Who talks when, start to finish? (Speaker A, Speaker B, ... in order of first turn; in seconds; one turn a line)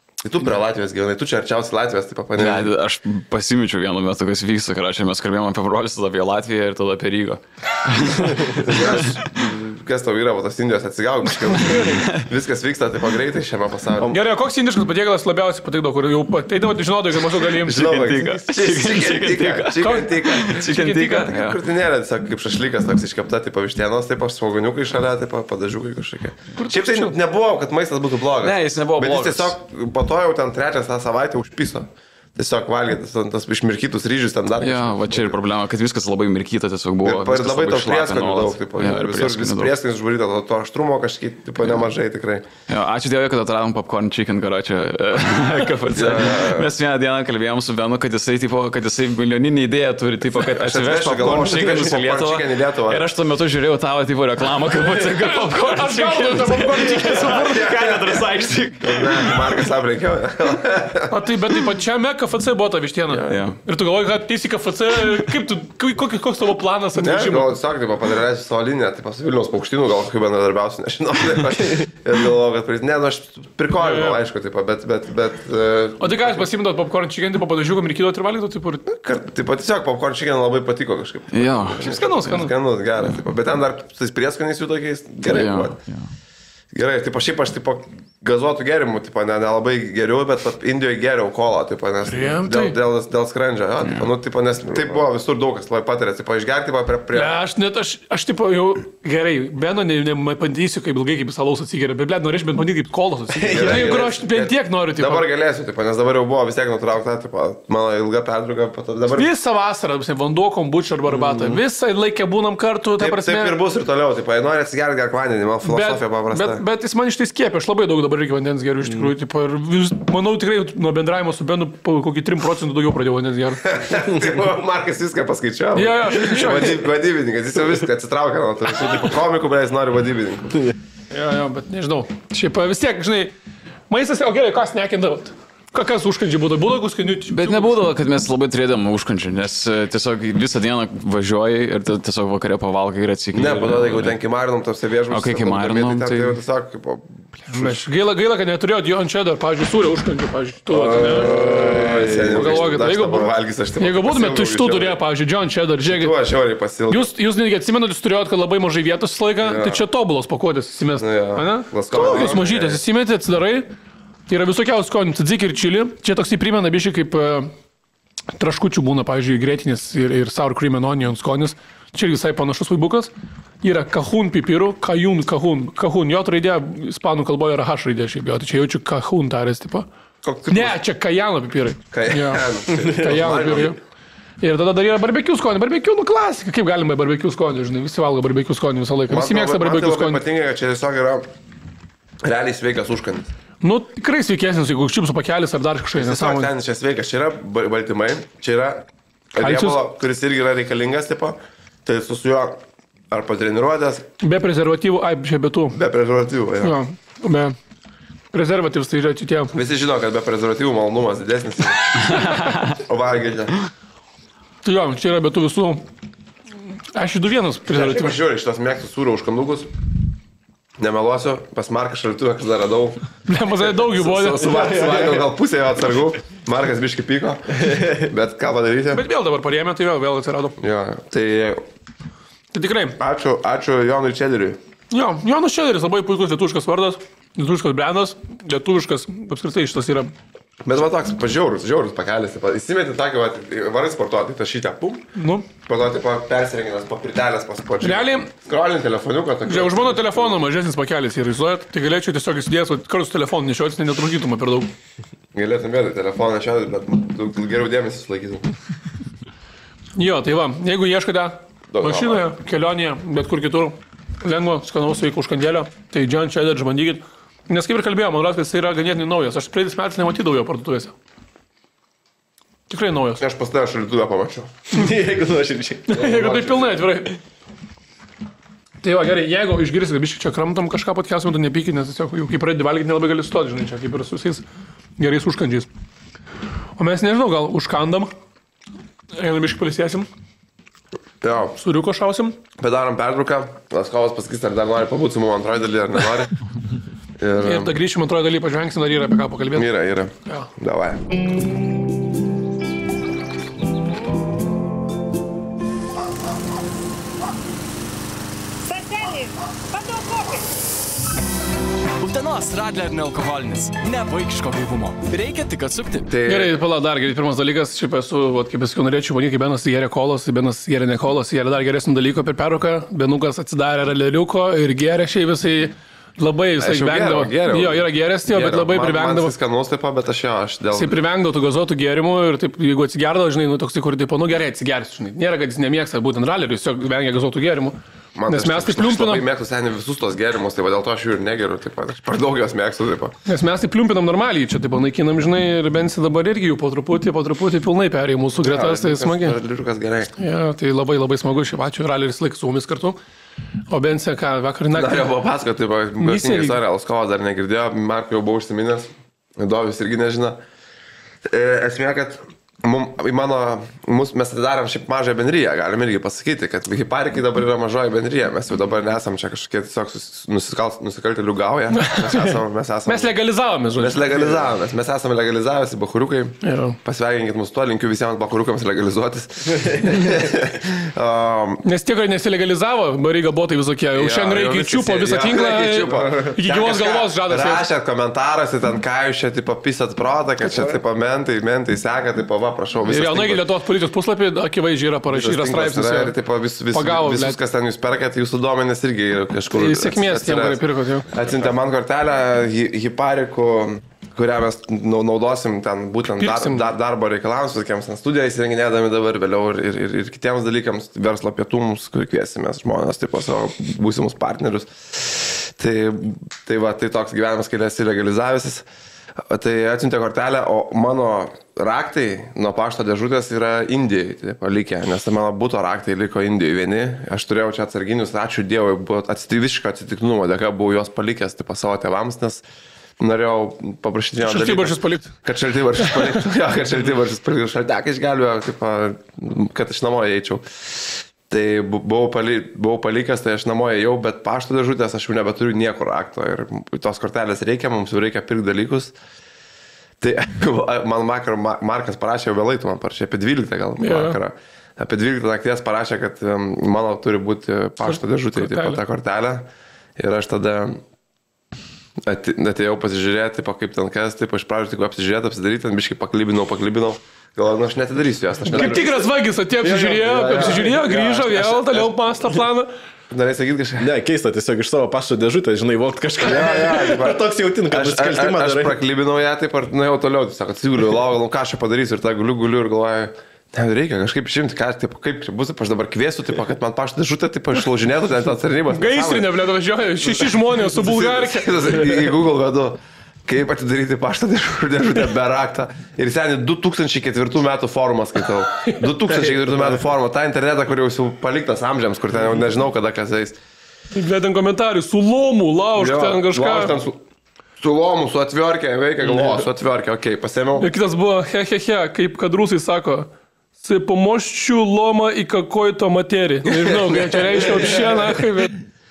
Speaker A: 0.2-2.7
Speaker B: 2.4-9.2
Speaker A: 8.5-14.1
Speaker B: 11.8-12.2
Speaker C: 14.1-17.9
Speaker A: 17.4-35.3
Speaker B: 17.6-21.6
Speaker C: 19.8-21.3
Speaker C: 26.6-27.1
Speaker B: 28.4-29.6
Speaker B: 34.6-39.7
Speaker A: 37.0-42.5
Speaker B: 42.7-59.4
Speaker A: 45.9-46.7
Speaker A: 50.4-53.0
Speaker C: 55.2-57.9
Speaker A: 57.5-58.3
Speaker A: 58.8-61.2
Speaker C: 61.1-67.5
Speaker B: 63.3-63.6
Speaker A: 67.0-76.5
Speaker C: 73.8-74.2
Speaker C: 76.0-78.8
Speaker A: 78.8-85.8
Speaker B: 81.3-82.4
Speaker C: 81.8-82.5
Speaker B: 85.3-86.0
Speaker A: 86.7-97.3
Speaker C: 92.1-92.8
Speaker C: 97.1-105.3
Speaker A: 103.4-109.3
Speaker C: 109.1-113.6
Speaker A: 113.0-116.6
Speaker C: 115.7-123.7
Speaker A: 123.6-130.7
Speaker C: 125.7-126.8
Speaker C: 131.1-133.3
Speaker C: 133.9-137.8
Speaker B: 137.3-144.2
Speaker A: 143.3-147.8
Speaker B: 145.1-146.4
Speaker C: 147.5-156.1
Speaker A: 150.7-155.0
Speaker D: 151.3-152.0
Speaker A: 155.8-157.1
Speaker C: 156.9-163.7
Speaker A: 159.4-159.8
Speaker A: 161.0-162.8
Speaker C: 164.3-167.5
Speaker C: 168.4-179.9
Speaker A: 180.2-180.8
Speaker C: 180.5-183.8
Speaker A: 181.9-183.8
Speaker C: 184.4-190.2
Speaker A: 189.1-191.3
Speaker A: 192.2-193.3
Speaker C: 193.6-196.5
Speaker A: 195.9-204.1
Speaker C: 199.4-199.8
Speaker C: 204.2-205.8
Speaker A: 205.7-206.8
Speaker C: 206.6-207.6
Speaker C: 208.3-209.6
Speaker A: 209.5-213.5
Speaker C: 212.2-212.5
Speaker C: 214.6-215.8
Speaker C: 216.9-218.2
Speaker A: 217.7-219.8
Speaker A: 220.8-223.0
Speaker C: 223.3-225.3
Speaker A: 223.7-229.0
Speaker C: 228.9-230.6
Speaker A: 230.6-231.6
Speaker C: 232.5-233.0
Speaker A: 233.0-234.6
Speaker C: 234.9-240.1
Speaker A: 240.6-245.0
Speaker C: 245.1-245.5
Speaker A: 245.7-250.3
Speaker C: 247.8-248.3
Speaker C: 249.4-254.7
Speaker A: 255.3-258.4
Speaker C: 259.9-270.9
Speaker A: 261.7-262.2
Speaker C: 272.7-273.2
Speaker A: 273.2-274.5
Speaker D: 274.7-275.9
Speaker C: 275.9-277.2
Speaker A: 275.9-276.8
Speaker C: 278.8-284.4
Speaker C: 285.0-285.7
Speaker C: 286.8-288.1
Speaker C: 289.1-290.1
Speaker A: 291.2-291.6
Speaker C: 291.6-292.4
Speaker A: 292.6-296.3
Speaker A: 297.2-297.8
Speaker C: 297.4-299.7
Speaker A: 299.5-301.1
Speaker E: 312.0-316.1
Speaker A: 316.1-316.5
Speaker C: 316.2-329.3
Speaker A: 326.6-330.9
Speaker C: 330.7-337.8
Speaker A: 338.1-343.1
Speaker C: 338.3-339.2
Speaker C: 343.2-349.4
Speaker A: 348.4-350.1
Speaker C: 350.2-353.0
Speaker C: 353.7-355.1
Speaker A: 354.7-360.4
Speaker C: 356.0-356.6
Speaker A: 361.2-373.1
Speaker C: 371.7-374.3
Speaker A: 373.8-381.6
Speaker C: 376.4-376.8
Speaker C: 381.6-387.6
Speaker A: 383.9-393.4
Speaker C: 392.9-396.1
Speaker A: 395.1-418.6
Speaker C: 396.7-397.4
Speaker C: 399.5-401.1
Speaker C: 406.2-406.6
Speaker A: 419.3-432.4
Speaker A: 433.0-448.9
Speaker C: 434.2-435.1
Speaker C: 435.8-436.1
Speaker A: 450.0-460.8
Speaker C: 453.8-454.2
Speaker C: 457.9-458.8
Speaker A: 462.0-469.0
Speaker C: 468.4-472.7
Speaker D: 469.6-470.8
Speaker A: 470.0-472.2
Speaker A: 473.1-473.9
Speaker D: 473.8-478.8
Speaker A: 476.2-489.3
Speaker C: 488.7-492.1
Speaker A: 490.0-503.4
Speaker C: 503.9-506.8
Speaker A: 505.7-507.0
Speaker A: 507.6-510.7
Speaker C: 510.6-518.6
Speaker A: 516.5-517.7